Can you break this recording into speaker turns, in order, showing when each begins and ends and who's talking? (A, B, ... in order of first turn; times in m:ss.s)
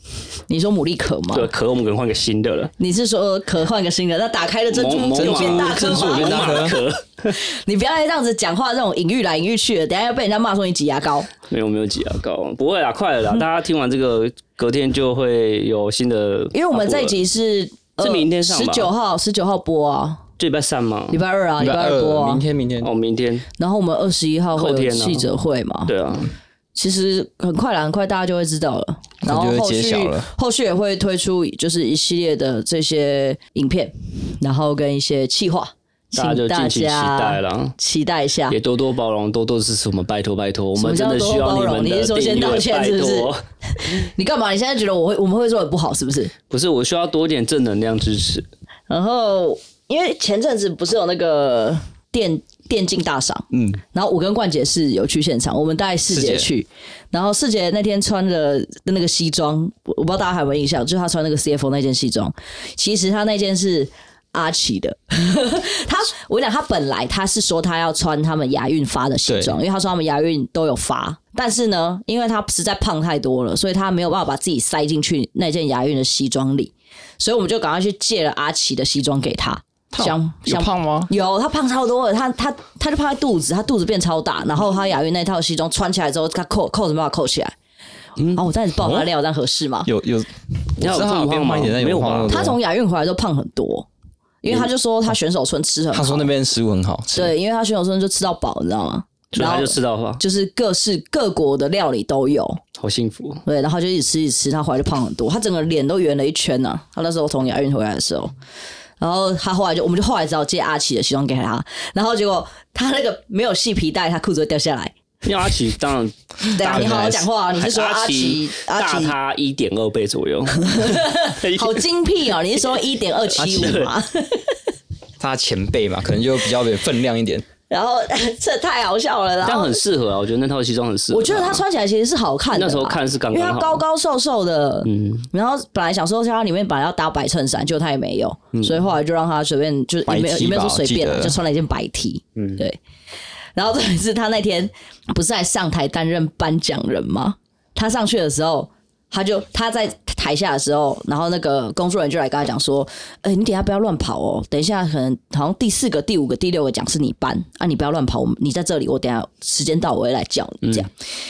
0:00.5-0:01.5 A
0:01.3-0:02.7 B
0:02.8-0:06.7 A
0:04.7-0:07.4 B
0:05.2-0:06.8 C
0:07.3-0:11.3 A
0:11.5-0:17.2 B
0:16.5-0:20.2 A
0:18.0-0:18.9 B
0:20.4-0:21.2 B
0:21.1-0:22.4 A
0:21.6-0:22.9 C
0:22.8-0:23.4 B
0:23.6-0:25.9 A
0:24.6-0:25.3 B
0:25.9-0:26.3 B
0:26.8-0:38.6 A
0:29.2-0:30.3 C
0:36.1-0:37.7 B
0:38.5-0:43.4 B
0:40.8-0:46.3 A
0:46.5-0:48.5 B
0:48.9-1:27.5 A
0:53.5-0:53.8 C
0:56.1-0:56.5 C
1:09.3-1:09.6 C
1:19.9-1:21.1 C
1:28.3-1:29.9 A
1:28.7-1:29.1 C
1:29.8-1:32.6 C
1:30.8-1:32.4 B
1:32.3-1:33.9 A
1:34.4-1:36.3 A
1:35.9-1:37.3 C
1:37.1-1:42.6 A
1:39.3-1:40.2 B
1:42.8-1:43.4 B
1:43.4-1:48.3 A
1:49.0-1:54.9 A
1:55.2-2:01.8 B
1:56.4-1:59.1 A
1:56.6-1:57.2 C
2:00.6-2:04.5 A
2:03.4-2:03.9 B
2:03.4-2:03.8 C
2:05.2-2:07.4 C
2:07.7-2:09.8 A
2:09.4-2:11.6 B
2:11.1-2:22.8 A
2:12.5-2:13.8 B
2:14.8-2:15.3 B
2:18.5-2:18.8 B
2:20.1-2:21.4 C
2:22.4-2:22.6 B
2:23.6-2:40.9 A